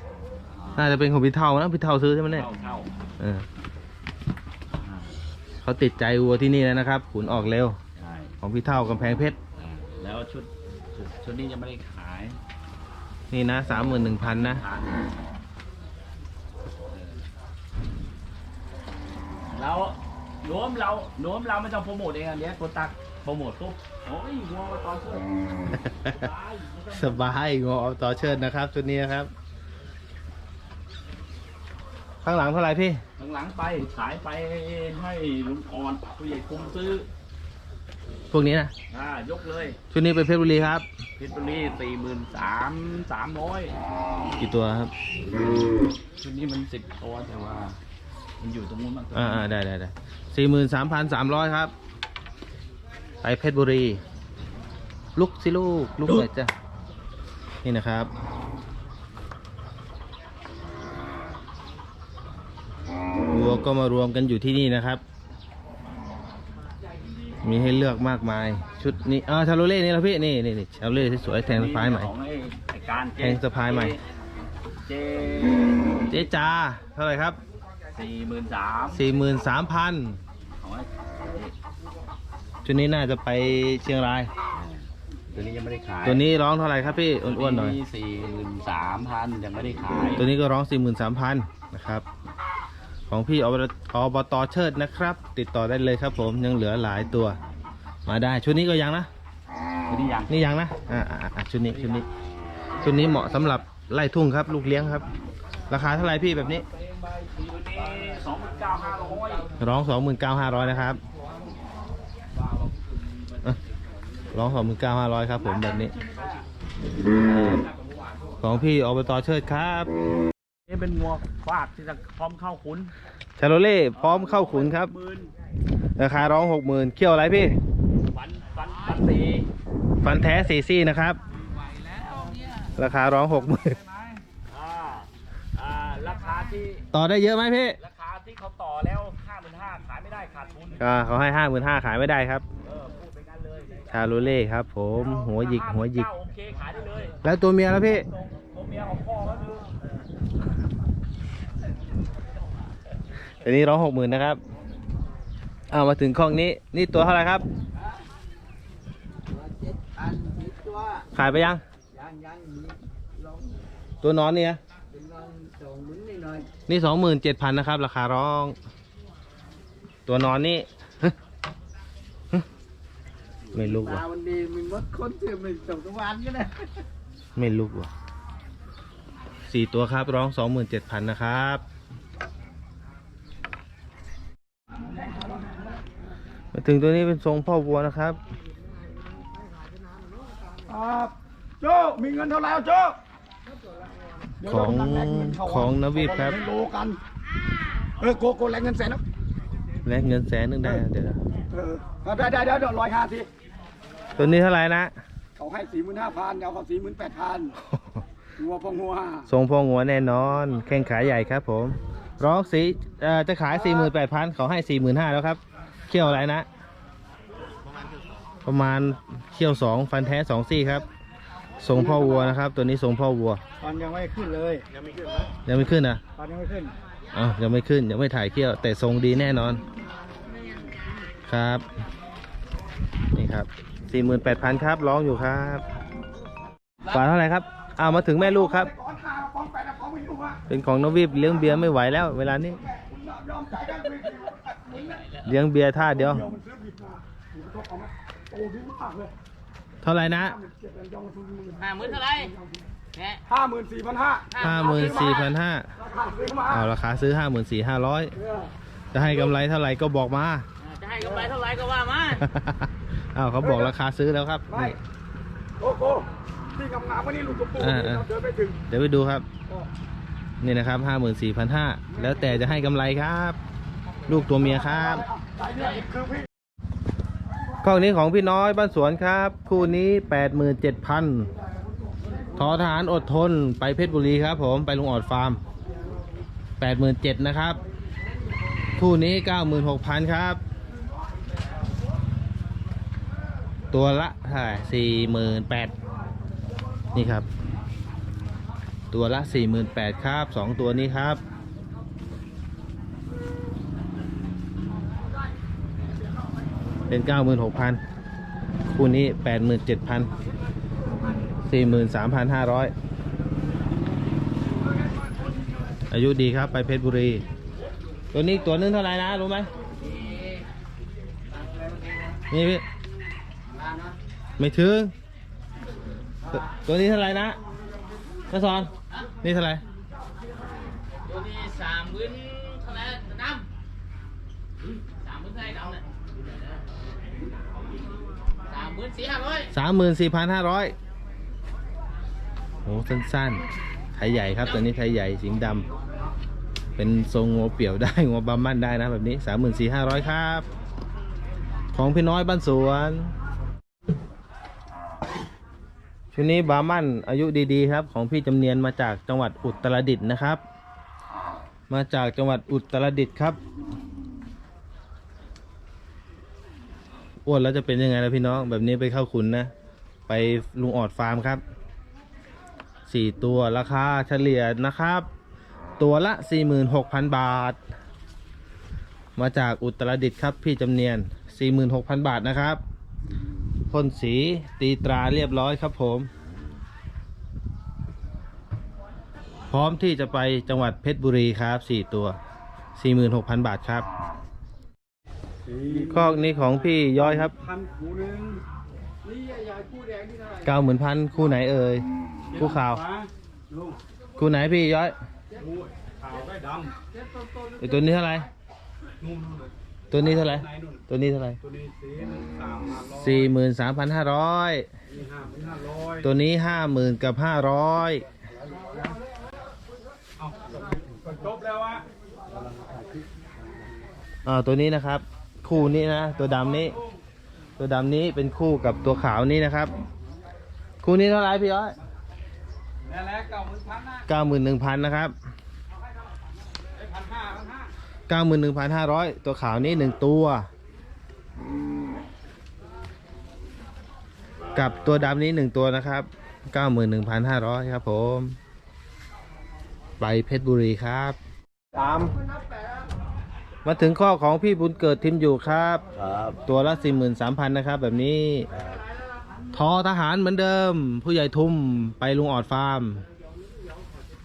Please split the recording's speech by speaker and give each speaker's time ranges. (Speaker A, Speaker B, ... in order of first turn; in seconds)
Speaker A: 0.5-0.9, 2.3-2.9, 4.8-5.2, 8.0-8.3, 9.6-12.4, 13.7-15.1, 16.9-17.2, 19.5-25.3, 26.0-27.4, 33.2-37.1, 38.9-39.8, 41.2-43.8, 45.4-47.8, 48.4-49.5, 71.4-74.0, 74.8-76.1, 77.9-79.0, 80.6-81.5, 84.5-86.3, 87.2-90.2, 99.9-100.4, 101.7-102.0, 106.8-109.5, 112.4-113.6, 115.4-116.5, 117.2-118.5, 120.7-122.9, 124.0-125.3, 128.1-129.5, 134.5-136.9, 137.8-140.9, 142.6-143.9, 144.9-147.2, 147.9-149.7, 406.0-406.3, 451.8-452.1, 456.0-456.4
Speaker B: 0.8-2.5, 3.2-3.5, 5.6-7.8, 8.4-9.4, 13.3-14.6, 25.7-26.3, 27.0-29.3, 32.2-33.0, 38.3-38.7, 39.9-40.9, 44.4-44.9, 49.1-51.7, 53.2-54.0, 55.2-56.5, 57.6-58.1, 63.3-65.0, 67.4-72.1, 73.2-74.0, 76.1-77.4, 78.9-80.2, 82.7-84.3, 86.0-87.8, 90.2-92.0, 93.1-97.4, 98.1-99.1, 100.3-102.1, 102.8-105.1, 105.7-106.7, 109.6-111.0, 114.3-115.9, 117.2-117.7, 118.4-119.9, 123.4-124.9, 126.0-127.6, 130.0-131.2, 132.8-133.8, 136.9-137.8, 140.8-142.4, 143.9-146.1, 147.2-148.1, 153.4-154.4, 155.7-157.4, 161.2-161.6, 164.0-164.6, 166.7-168.6, 170.1-171.2, 173.5-174.0, 177.4-177.9, 179.5-181.6, 186.5-188.2, 194.4-196.4, 199.8-201.2, 204.2-204.9, 207.7-208.0, 209.3-216.5, 218.4-220.9, 221.6-223.4, 225.5-226.0, 227.1-229.6, 231.3-231.7, 233.1-235.6, 236.9-238.7, 240.5-242.6, 245.2-246.3, 249.8-250.4, 254.4-255.7, 256.5-258.1, 258.9-260.5, 262.2-264.8, 267.6-268.1, 268.7-269.3, 270.4-273.4, 274.1-275.1, 277.6-281.3, 282.4-285.4, 286.6-287.6, 288.8-290.4, 293.7-295.7, 296.9-297.3, 298.9-301.2, 306.9-307.8, 308.7-310.1, 311.5-312.7, 315.9-317.2, 318.1-319.5, 322.3-322.6, 324.4-324.9, 326.3-327.4, 328.3-329.6, 339.5-340.8, 342.6-343.4, 343.9-345.7, 346.8-350.5, 351.7-353.1, 356.1-360.4, 361.7-363.4, 367.3-369.5, 370.1-371.4, 372.9-375.1, 375.8-377.6, 379.2-382.6, 383.7-386.1, 389.5-392.2, 392.8-393.9, 395.9-397.4, 400.4-401.9, 402.4-402.8, 404.2-405.0, 407.6-408.3, 409.9-411.4, 412.8-414.7, 416.0-418.1, 424.3-426.8, 427.6-429.7, 430.8-431.8, 434.1-435.1, 438.1-440.5, 444.6-448.4, 450.0-451.2, 453.6-455.8, 456.4-458.5, 459.5-463.1
Speaker C: 159.3-161.1, 161.9-163.6, 164.9-166.5, 173.5-176.8, 323.5-323.9, 422.3-423.1
Speaker D: 185.0-185.7, 190.7-193.0, 194.4-197.0, 198.0-199.0, 201.5-203.3, 205.4-207.6, 208.4-209.3, 221.7-222.3, 223.6-224.7, 226.2-226.7, 238.2-240.4, 242.6-245.1, 245.9-249.1, 250.1-252.6, 253.3-255.2, 255.8-256.7, 258.2-259.3, 261.0-261.3, 263.4-263.7, 264.5-264.8, 265.6-268.6, 274.2-276.2, 395.5-398.4, 402.3-403.8, 405.4-406.7, 409.0-410.8, 411.4-413.3, 414.9-416.1, 420.2-421.8, 432.9-434.0, 436.8-437.7
Speaker E: 244.7-245.3, 251.6-252.3, 252.9-253.2, 254.3-255.4, 260.6-262.3, 319.8-320.4, 321.6-322.1, 331.1-333.4, 335.0-335.8, 338.5-339.5